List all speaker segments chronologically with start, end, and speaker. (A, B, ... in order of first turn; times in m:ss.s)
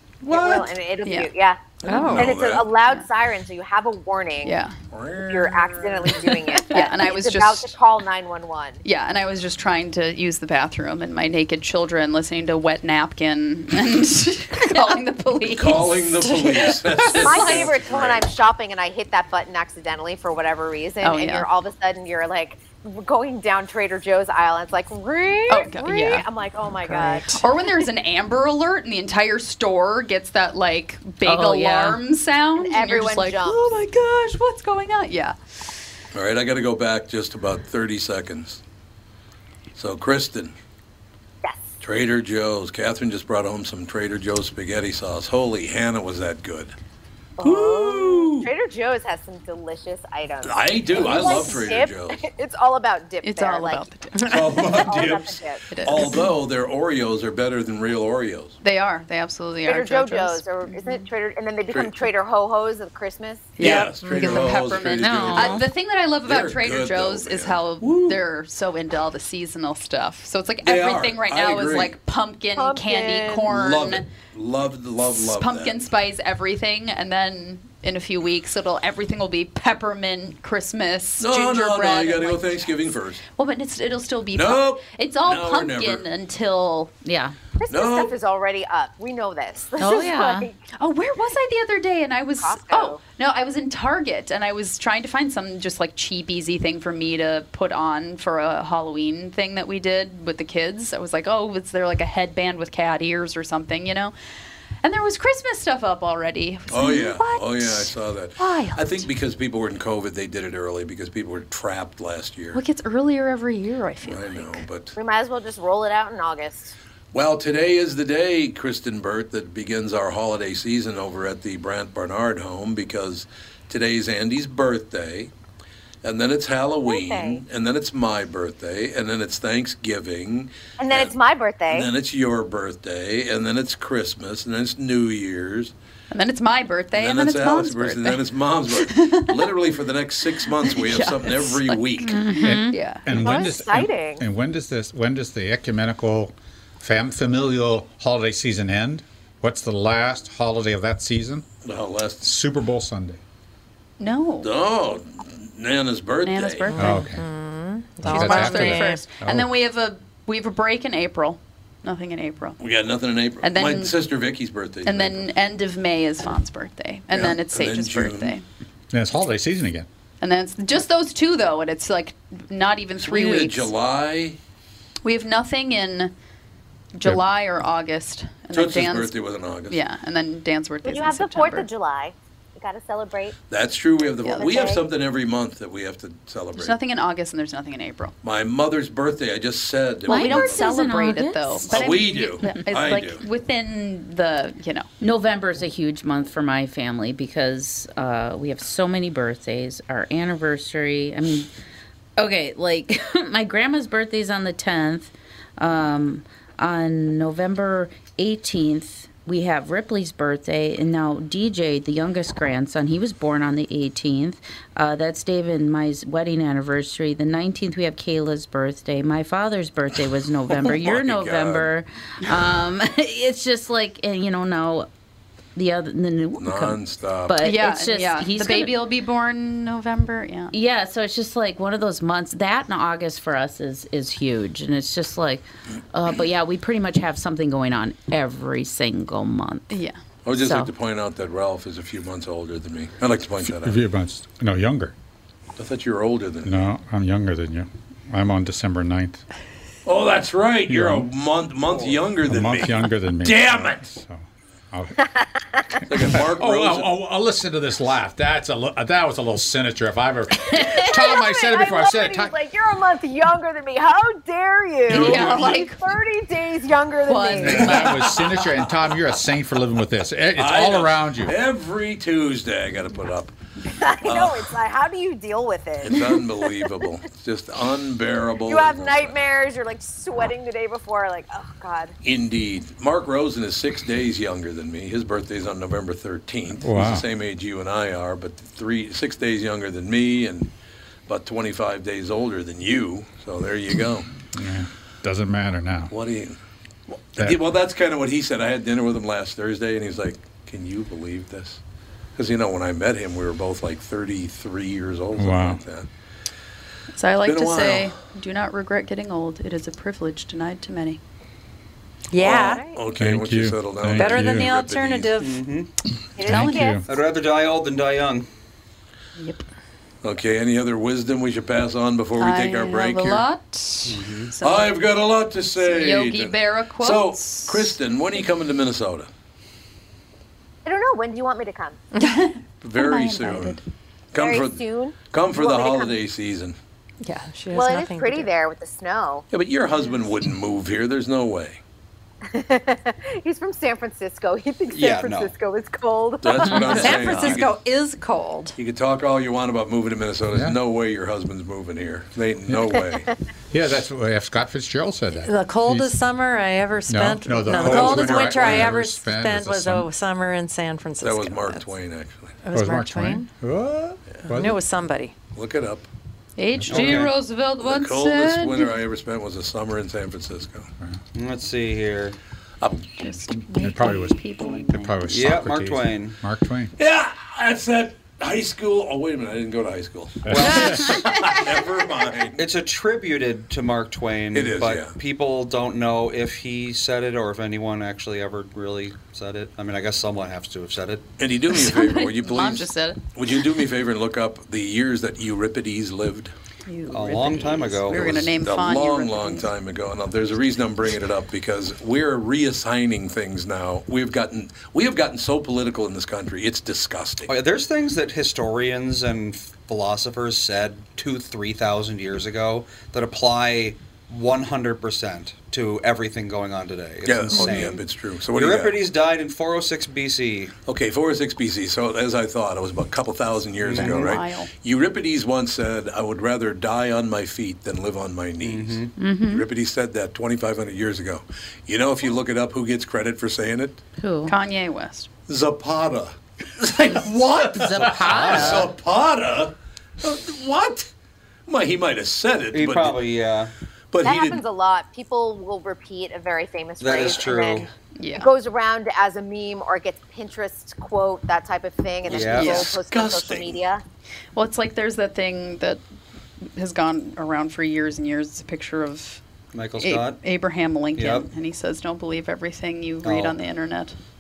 0:00.3-0:00.6 A
0:00.3-0:01.6 B
0:00.4-0:01.3 C
0:01.8-0:02.7 A
0:01.9-0:02.3 D
0:02.1-0:04.6 B
0:04.4-0:04.8 C
0:04.9-0:06.1 A
0:05.2-0:08.8 B
0:06.2-0:07.7 C
0:08.8-0:17.7 C
0:15.5-0:18.3 A
0:17.2-0:27.5 B
0:21.0-0:21.5 C
0:25.5-0:26.3 C
0:26.9-0:35.4 C
0:31.2-0:32.0 E
0:32.6-0:33.7 B
0:36.1-0:38.6 A
0:39.8-0:40.5 A
0:41.8-0:46.8 A
0:47.4-0:53.9 B
0:47.4-0:48.5 A
0:50.4-0:52.2 A
0:51.0-0:51.5 C
0:53.2-0:54.8 C
0:54.2-0:58.6 A
0:54.6-0:55.6 B
0:55.7-0:56.3 C
0:58.6-1:01.0 C
0:59.6-1:03.6 B
1:01.7-1:02.0 A
1:03.6-1:14.1 C
1:03.6-1:05.7 A
1:05.0-1:05.7 E
1:06.2-1:08.2 A
1:10.6-1:12.0 A
1:12.6-1:13.5 B
1:13.5-1:15.8 A
1:15.1-1:22.7 C
1:21.2-1:23.2 A
1:23.2-1:26.9 C
1:24.3-1:26.0 A
1:27.0-1:27.4 E
1:27.6-1:30.6 B
1:27.7-1:28.1 A
1:29.8-1:30.5 E
1:30.8-1:44.1 C
1:32.4-1:33.0 B
1:44.8-1:49.1 C
1:46.7-1:52.6 A
1:52.5-1:54.6 C
1:54.0-1:55.0 A
1:55.0-1:56.8 B
1:57.1-2:05.3 A
2:06.0-2:11.1 A
2:06.9-2:07.4 B
2:10.8-2:11.9 B
2:11.7-2:15.7 A
2:16.1-2:19.5 C
2:17.0-2:22.2 A
2:20.6-2:22.2 C
2:22.0-2:22.8 E
2:22.4-2:31.5 F
2:22.7-2:23.3 C
2:23.1-2:24.2 B
2:31.6-2:32.3 A
2:32.2-2:33.2 F
2:34.0-2:34.5 C
2:34.4-2:36.7 A
2:36.2-2:37.0 C
2:36.7-2:39.1 D
2:36.8-2:37.3 F
2:38.0-2:39.5 F
2:38.0-2:42.6 C
2:42.6-2:45.3 A
2:43.4-2:44.0 C
2:44.8-2:48.4 C
2:47.1-2:48.4 A
2:48.9-2:49.9 F
2:50.2-2:53.7 C
2:53.0-2:54.4 A
2:55.0-2:56.1 C
2:57.0-2:59.2 C
2:58.5-2:59.8 A
2:59.7-3:01.7 C
3:00.8-3:03.4 B
3:03.5-3:06.8 A
3:04.2-3:04.7 C
3:04.4-3:04.8 B
3:06.6-3:08.1 C
3:08.2-3:10.6 A
3:10.1-3:14.9 C
3:10.1-3:12.6 E
3:11.7-3:13.2 A
3:15.0-3:21.5 E
3:22.2-3:44.9 E
3:40.5-3:41.7 A
3:45.6-3:48.8 E
3:46.4-3:47.4 A
3:47.4-3:50.5 C
3:50.5-3:59.8 E
3:59.7-4:00.0 C
4:00.2-4:03.8 A
4:00.4-4:00.7 E
4:03.5-4:04.9 F
4:05.6-4:06.6 A
4:06.4-4:09.2 F
4:09.9-4:13.8 A
4:10.7-4:11.1 F
4:11.7-4:12.1 G
4:12.2-4:15.0 F
4:15.8-4:22.3 F
4:15.8-4:17.0 A
4:20.5-4:27.9 B
4:24.9-4:25.8 C
4:24.9-4:25.5 A
4:27.1-4:28.1 C
4:27.4-4:31.4 F
4:28.4-4:28.7 A
4:30.4-4:33.3 A
4:33.8-4:36.2 B
4:34.0-4:34.5 A
4:35.8-4:39.1 A
4:38.5-4:42.0 B
4:42.0-4:50.5 A
4:46.6-4:47.1 F
4:51.1-4:54.1 A
4:54.3-4:55.9 F
4:55.9-4:56.4 A
4:57.1-5:01.6 A
5:02.2-5:05.9 A
5:05.2-5:05.6 F
5:06.9-5:11.0 C
5:07.2-5:08.0 A
5:12.1-5:12.8 D
5:12.2-5:15.1 A
5:13.0-5:14.5 F
5:14.0-5:15.4 D
5:15.2-5:15.7 G
5:16.2-5:16.9 B
5:16.2-5:16.9 F
5:16.9-5:18.3 G
5:19.2-5:19.5 C
5:20.0-5:23.3 A
5:22.2-5:24.8 C
5:23.9-5:24.3 G
5:24.4-5:29.1 A
5:25.6-5:27.8 C
5:30.6-5:31.8 B
5:32.0-5:33.6 C
5:32.6-5:33.6 A
5:34.1-5:36.6 A
5:34.1-5:36.0 B
5:37.0-5:38.3 D
5:37.5-5:39.3 B
5:39.3-5:41.6 A
5:42.3-5:47.4 B
5:44.7-5:45.3 G
5:46.2-5:47.6 A
5:46.4-5:48.6 D
5:48.6-5:53.1 A
5:50.3-5:50.6 F
5:53.5-5:56.0 F
5:55.2-6:01.7 D
5:56.9-5:59.9 F
5:57.6-5:58.7 A
6:01.0-6:02.4 A
6:02.4-6:03.3 D
6:02.5-6:04.6 F
6:04.3-6:05.1 D
6:05.4-6:05.9 A
6:06.4-6:08.8 C
6:06.6-6:06.9 F
6:06.7-6:07.1 G
6:07.6-6:10.7 A
6:11.1-6:12.2 G
6:12.6-6:13.0 A
6:13.0-6:15.0 C
6:13.5-6:16.7 F
6:15.1-6:16.2 G
6:16.8-6:22.4 A
6:20.3-6:21.0 F
6:20.3-6:20.9 G
6:22.4-6:31.1 G
6:24.3-6:25.0 A
6:31.2-6:36.3 A
6:31.5-6:33.0 C
6:36.7-6:39.5 C
6:36.9-6:38.2 G
6:37.9-6:47.3 A
6:47.3-7:00.5 G
6:57.0-6:58.8 A
7:00.7-7:13.8 A
7:03.6-7:04.2 G
7:03.7-7:04.5 C
7:08.4-7:08.9 G
7:09.0-7:09.5 E
7:14.0-7:14.4 E
7:14.3-7:15.1 C
7:15.3-7:20.9 A
7:17.4-7:18.7 E
7:18.0-7:18.7 G
7:21.5-7:23.0 A
7:22.5-7:23.5 G
7:23.9-7:24.4 A
7:24.0-7:33.8 B
7:26.8-7:27.7 G
7:28.0-7:28.3 C
7:32.1-7:32.7 G
7:32.1-7:33.6 A
7:32.3-7:32.7 C
7:34.4-7:35.8 C
7:36.6-7:39.2 C
7:39.5-7:40.2 G
7:39.8-7:44.0 C
7:41.0-7:41.3 G
7:43.0-7:43.4 G